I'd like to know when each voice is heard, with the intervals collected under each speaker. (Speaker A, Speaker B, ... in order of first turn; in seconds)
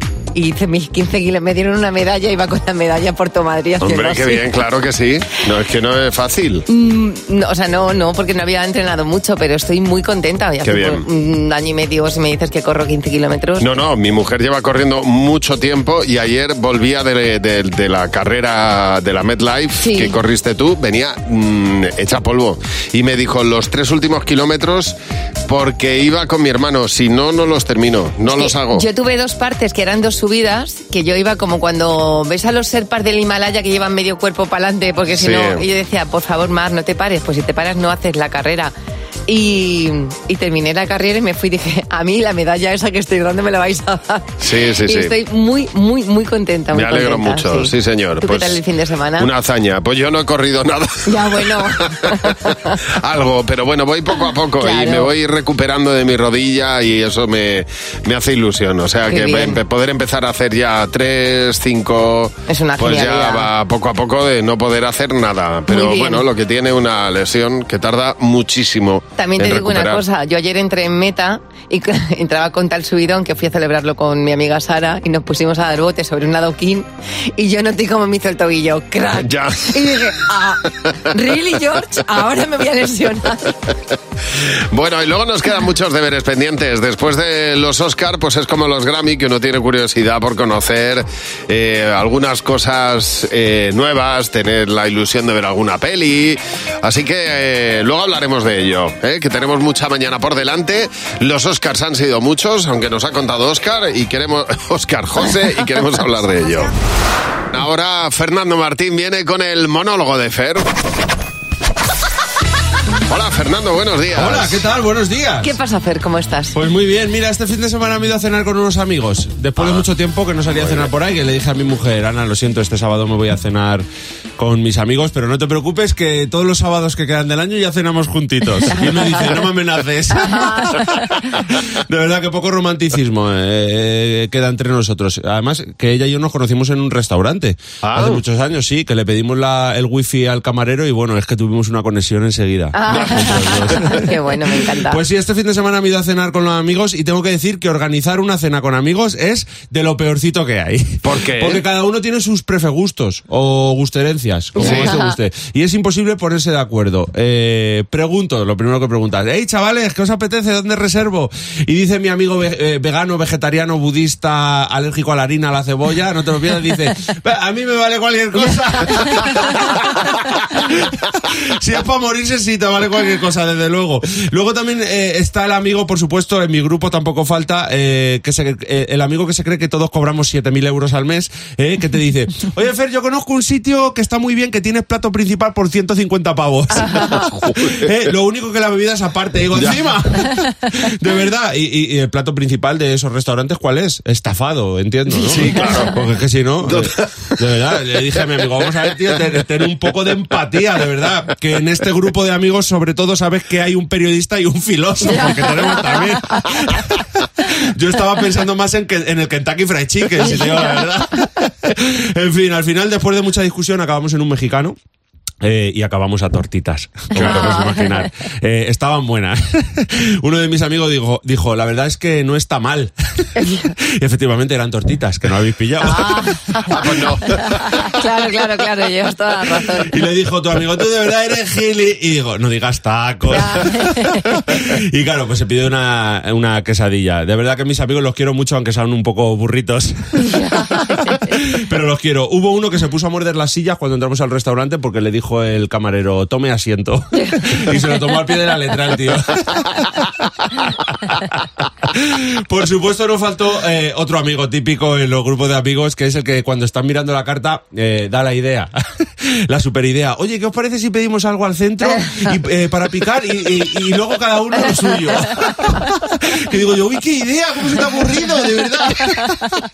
Speaker A: 0.3-4.4, 6.7-13.7, 19.8-20.2, 28.2-38.7, 39.3-49.3, 51.1-52.7, 54.6-55.1, 59.1-59.6, 62.5-63.5, 65.7-66.2, 69.2-83.5, 115.4-116.6, 128.7-129.3, 130.3-130.8, 142.7-145.0, 154.6-155.1, 217.2-217.8, 225.8-226.8, 227.4-229.9, 233.3-234.3
Speaker B: 3.8-6.7, 10.6-11.0, 13.6-24.9, 25.5-28.8, 35.1-35.6, 44.4-45.1, 46.7-48.6, 49.2-70.0, 79.1-79.7, 84.7-106.7, 107.5-110.7, 113.1-114.6, 119.6-119.9, 120.5-120.9, 137.9-138.2, 151.0-151.6, 154.6-155.0, 195.2-195.9, 196.6-197.3, 217.1-217.5, 226.7-227.2
Speaker C: 114.1-115.5, 116.5-123.8, 124.4-171.0, 171.6-207.0, 207.7-214.8, 215.4-222.9, 223.6-226.9, 229.8-240.1, 240.8-250.1, 250.7-251.3, 251.9-269.4